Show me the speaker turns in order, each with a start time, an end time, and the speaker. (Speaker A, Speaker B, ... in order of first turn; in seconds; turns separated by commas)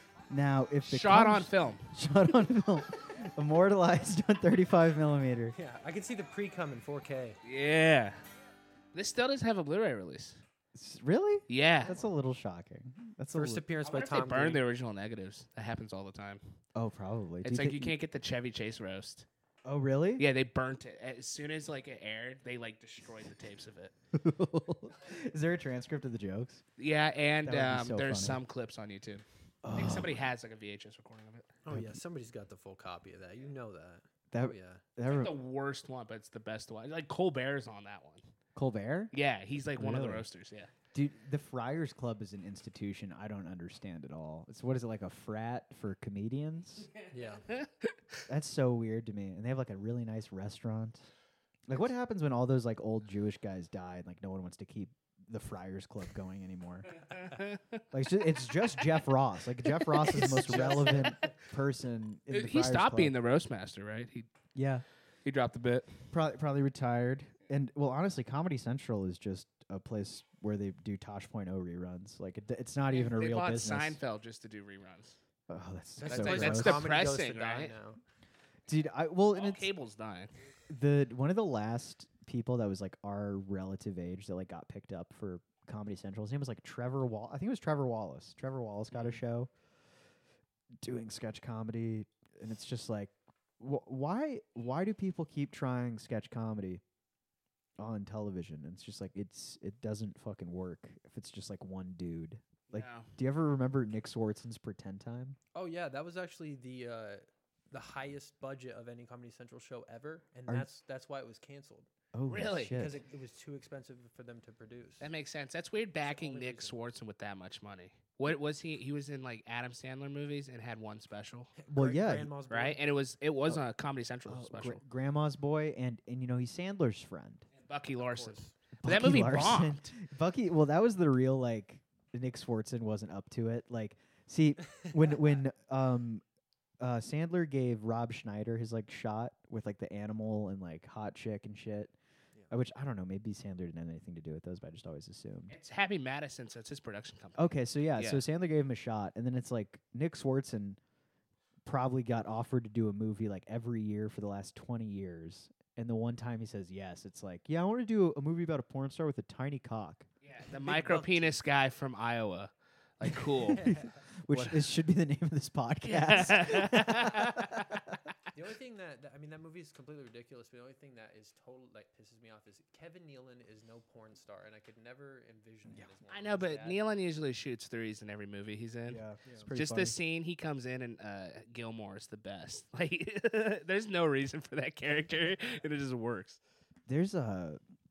Speaker A: 0.3-5.5, Speaker B: 0.8-1.9, Speaker C: 5.5-7.4, Speaker B: 7.4-8.2, Speaker B: 8.9-10.4, Speaker A: 10.7-13.6, Speaker B: 11.5-12.0, Speaker C: 13.3-14.6, Speaker B: 13.8-16.5, Speaker A: 16.7-17.9, Speaker B: 17.4-19.3, Speaker A: 19.6-20.2, Speaker B: 20.2-23.9, Speaker A: 24.1-26.6, Speaker B: 26.8-31.5, Speaker A: 27.4-28.4, Speaker A: 29.6-30.1, Speaker C: 31.6-34.8, Speaker A: 31.7-32.0, Speaker A: 34.3-35.3, Speaker B: 35.0-38.2, Speaker A: 38.5-39.1, Speaker B: 39.1-40.7, Speaker A: 39.8-40.2, Speaker A: 40.9-46.9, Speaker C: 47.1-47.5, Speaker B: 47.5-47.9, Speaker A: 48.3-51.1, Speaker A: 51.7-57.0, Speaker B: 57.0-57.8, Speaker A: 57.9-63.1, Speaker B: 59.9-61.3, Speaker C: 60.0-61.3, Speaker B: 62.3-64.3, Speaker A: 64.5-64.8, Speaker B: 65.2-66.0, Speaker A: 66.1-74.0, Speaker B: 72.9-75.2, Speaker A: 75.5-76.8, Speaker C: 76.0-78.0, Speaker B: 76.1-77.7, Speaker A: 78.7-79.7, Speaker B: 79.3-80.3, Speaker A: 80.7-89.5, Speaker A: 90.8-96.8, Speaker A: 97.8-105.4, Speaker B: 102.7-103.1, Speaker C: 105.5-111.9, Speaker A: 112.1-112.9, Speaker B: 112.3-112.8, Speaker C: 112.7-115.1, Speaker B: 115.0-121.5, Speaker C: 116.0-116.8, Speaker C: 121.6-122.8, Speaker A: 121.7-122.3, Speaker B: 122.5-124.8, Speaker A: 124.3-127.5, Speaker B: 127.5-129.9, Speaker C: 128.1-128.5, Speaker A: 128.8-136.2, Speaker A: 136.8-141.9, Speaker A: 142.5-145.5, Speaker B: 145.5-148.2, Speaker A: 147.4-150.8, Speaker A: 151.7-160.1, Speaker B: 160.2-163.7, Speaker C: 160.6-161.3, Speaker C: 163.5-163.9, Speaker A: 163.5-167.9, Speaker B: 164.3-164.7, Speaker B: 165.8-167.8, Speaker C: 168.3-176.8, Speaker B: 176.1-186.4, Speaker A: 178.9-180.0, Speaker C: 179.2-179.5, Speaker A: 186.9-187.6